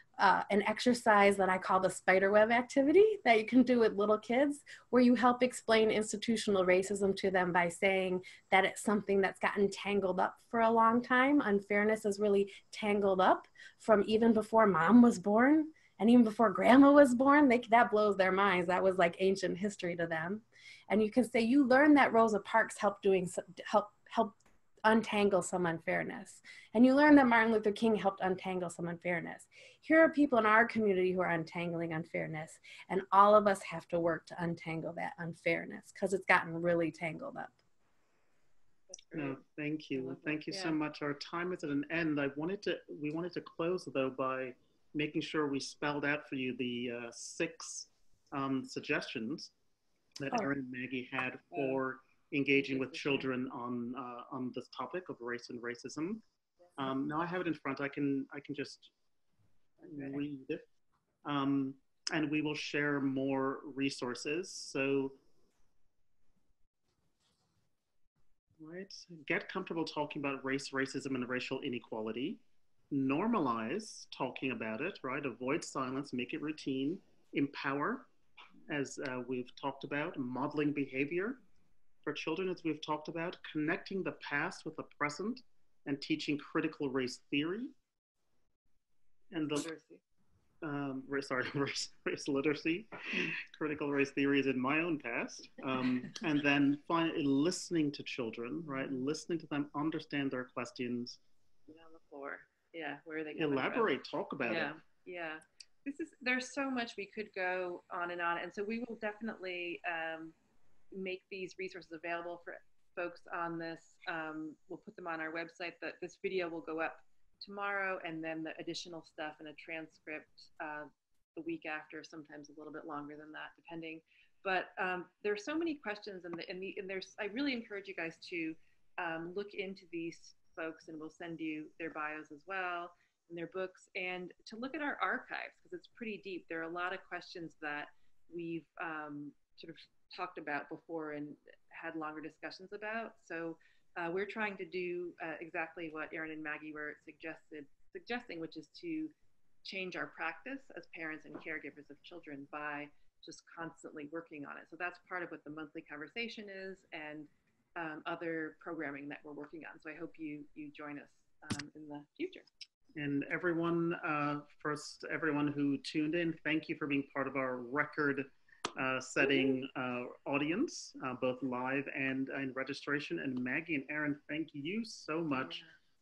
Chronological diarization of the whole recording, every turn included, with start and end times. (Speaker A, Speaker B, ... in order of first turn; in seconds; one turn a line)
Speaker A: 0.2-24.3
Speaker A: 24.9-37.5
Speaker B: 38.9-39.4
Speaker C: 39.1-49.5
Speaker B: 39.9-40.8
Speaker C: 50.2-56.2
Speaker B: 52.5-53.3
Speaker C: 56.8-58.9
Speaker C: 59.8-60.6
Speaker C: 61.2-65.2
Speaker C: 68.6-78.1
Speaker C: 78.7-81.4
Speaker C: 82.0-87.7
Speaker C: 89.3-89.7
Speaker B: 89.5-90.0
Speaker C: 90.6-101.2
Speaker B: 98.6-99.0
Speaker B: 101.7-103.9
Speaker C: 103.3-104.7
Speaker B: 104.4-110.3
Speaker B: 110.9-149.1
Speaker B: 149.6-162.4
Speaker C: 162.9-175.6